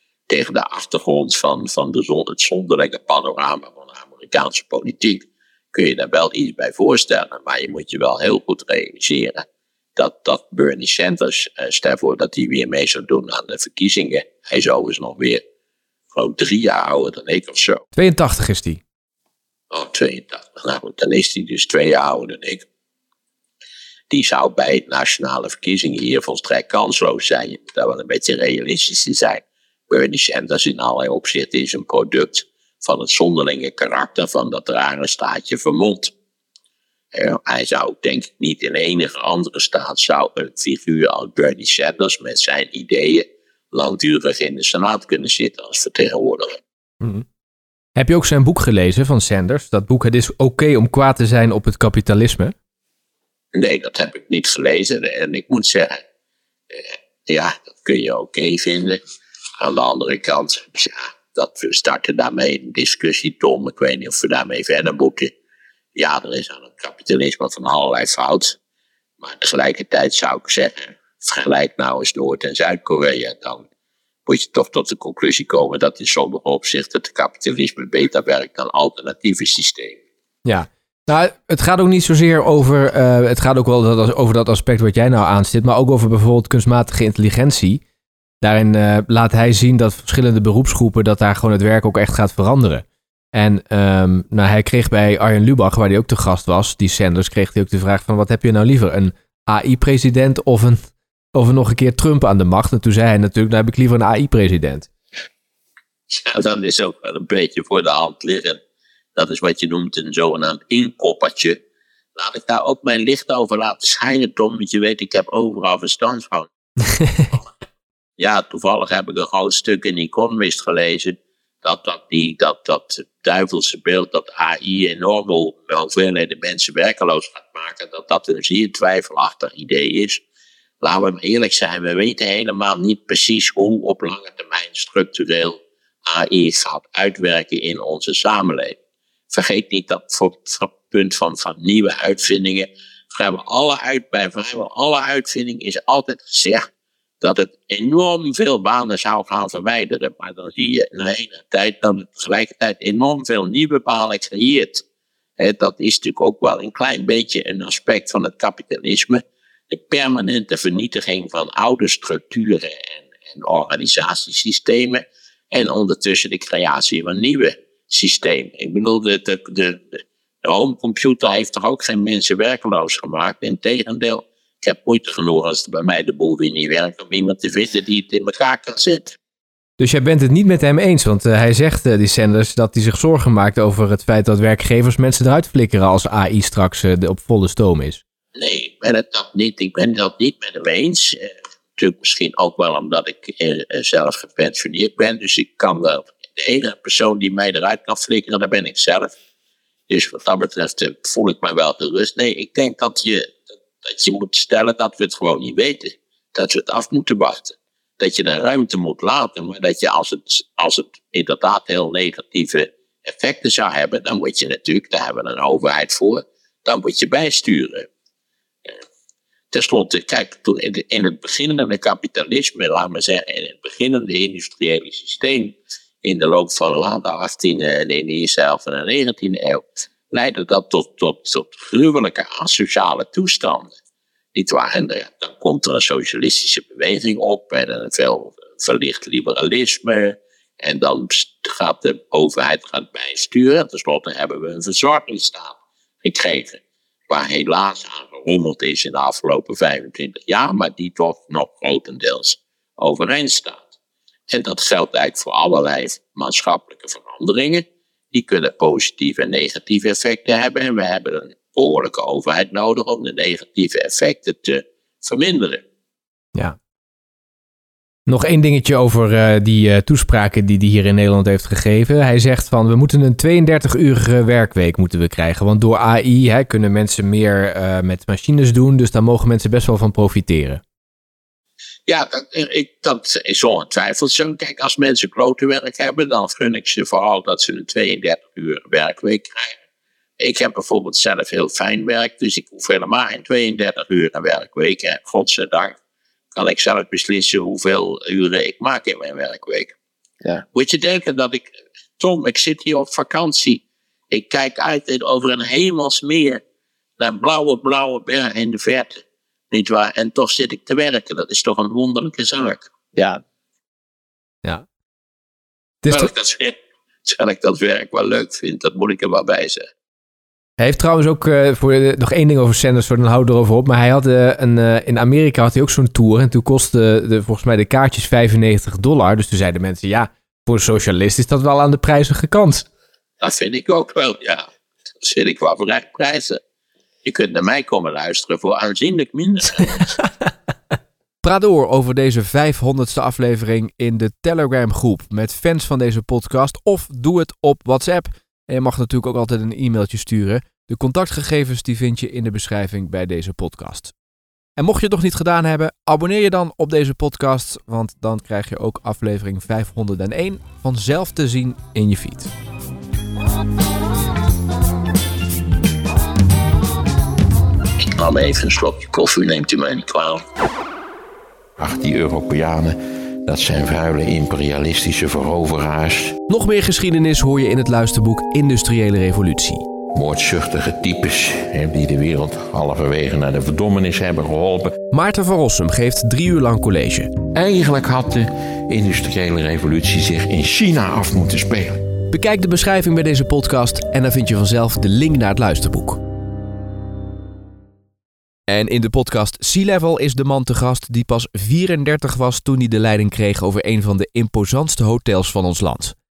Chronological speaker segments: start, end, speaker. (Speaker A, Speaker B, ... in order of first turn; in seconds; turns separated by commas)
Speaker A: 0.3-9.4, Speaker A: 10.0-15.4, Speaker A: 16.1-17.8, Speaker B: 17.9-18.8, Speaker A: 19.7-22.6, Speaker A: 24.1-36.1, Speaker A: 37.1-46.6, Speaker B: 48.0-52.5, Speaker A: 53.5-56.0, Speaker A: 56.7-59.0, Speaker A: 59.6-65.3, Speaker A: 66.0-68.6, Speaker A: 69.2-73.7, Speaker A: 74.3-80.0, Speaker B: 80.5-87.8, Speaker B: 88.4-104.9, Speaker A: 106.1-108.6, Speaker A: 109.2-111.6, Speaker A: 112.2-116.5, Speaker A: 118.2-130.2, Speaker A: 130.8-138.8, Speaker A: 139.3-146.7, Speaker A: 147.2-154.8, Speaker A: 155.4-179.2, Speaker B: 179.8-188.0, Speaker A: 188.4-199.1, Speaker A: 199.9-217.9, Speaker A: 219.5-233.7, Speaker A: 234.3-253.7, Speaker A: 254.3-265.6, Speaker B: 268.1-280.6, Speaker A: 281.9-289.6, Speaker A: 290.2-295.8, Speaker A: 296.4-299.7, Speaker A: 300.5-306.4, Speaker A: 307.0-312.7, Speaker B: 315.8-316.1, Speaker A: 315.9-319.7, Speaker B: 320.6-332.7, Speaker A: 333.2-334.5, Speaker A: 335.0-336.4, Speaker A: 337.0-339.8, Speaker B: 341.2-353.9, Speaker B: 354.6-362.3, Speaker A: 367.8-370.2, Speaker C: 371.6-376.2, Speaker B: 376.3-379.6, Speaker C: 379.9-384.8, Speaker B: 384.9-387.1, Speaker C: 387.3-391.9, Speaker B: 392.1-396.0, Speaker B: 398.5-405.9